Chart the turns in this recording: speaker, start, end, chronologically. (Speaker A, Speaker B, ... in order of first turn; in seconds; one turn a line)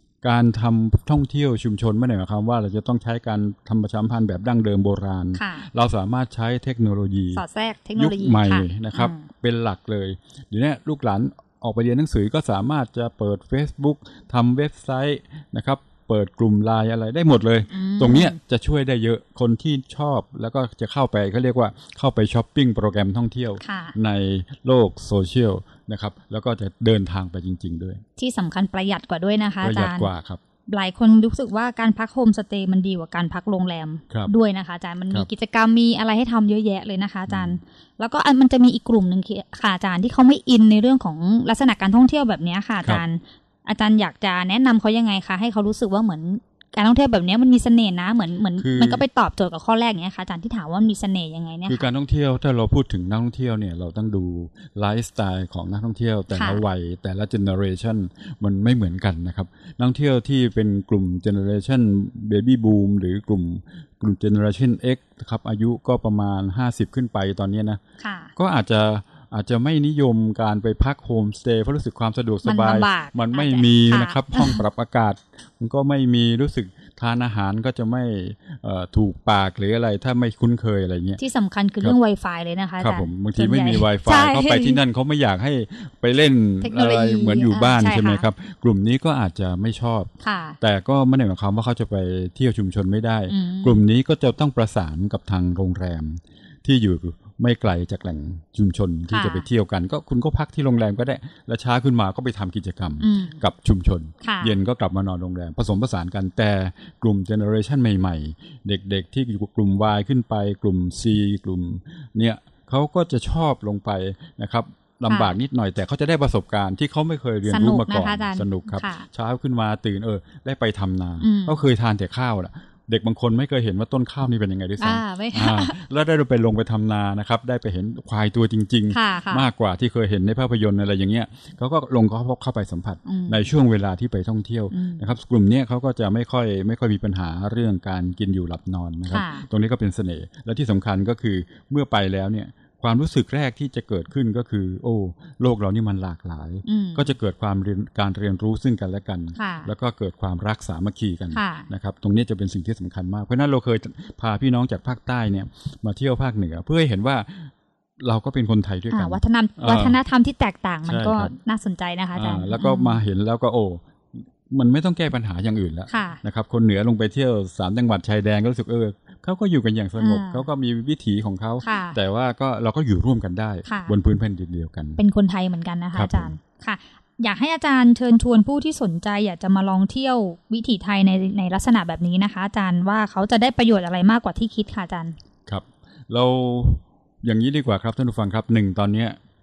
Speaker A: 0.2-28.0
Speaker B: 5.3-5.7
Speaker B: 7.3-9.2
Speaker B: 17.7-18.4
Speaker B: 23.6-23.9
Speaker B: 28.2-30.1
Speaker A: 29.6-30.4
Speaker B: 30.7-51.9
Speaker A: 37.3-37.6
Speaker A: 48.6-49.0
Speaker A: 51.7-67.8
Speaker B: 56.3-56.6
Speaker B: 68.0-68.3
Speaker A: 68.3-81.2
Speaker B: 72.4-74.6
Speaker B: 81.2-84.8
Speaker A: 82.8-90.1
Speaker B: 86.6-88.3
Speaker B: 90.2-90.6
Speaker A: 90.6-160.0
Speaker B: 93.3-93.8
Speaker B: 99.1-99.5
Speaker B: 103.0-103.4
Speaker B: 104.2-104.6
Speaker B: 115.1-115.4
Speaker B: 117.5-119.1
Speaker B: 121.2-121.6
Speaker B: 124.8-125.8
Speaker B: 128.9-129.4
Speaker B: 133.1-133.4
Speaker B: 134.7-135.0
Speaker B: 139.1-139.4
Speaker B: 146.7-147.1
Speaker B: 149.3-149.7
Speaker B: 151.3-151.7
Speaker B: 158.9-163.0
Speaker A: 160.8-161.3
Speaker A: 162.1-175.0
Speaker B: 165.9-166.2
Speaker B: 170.0-170.4
Speaker B: 171.6-172.0
Speaker B: 173.6-173.9
Speaker B: 175.0-185.1
Speaker A: 175.9-176.3
Speaker A: 185.4-189.2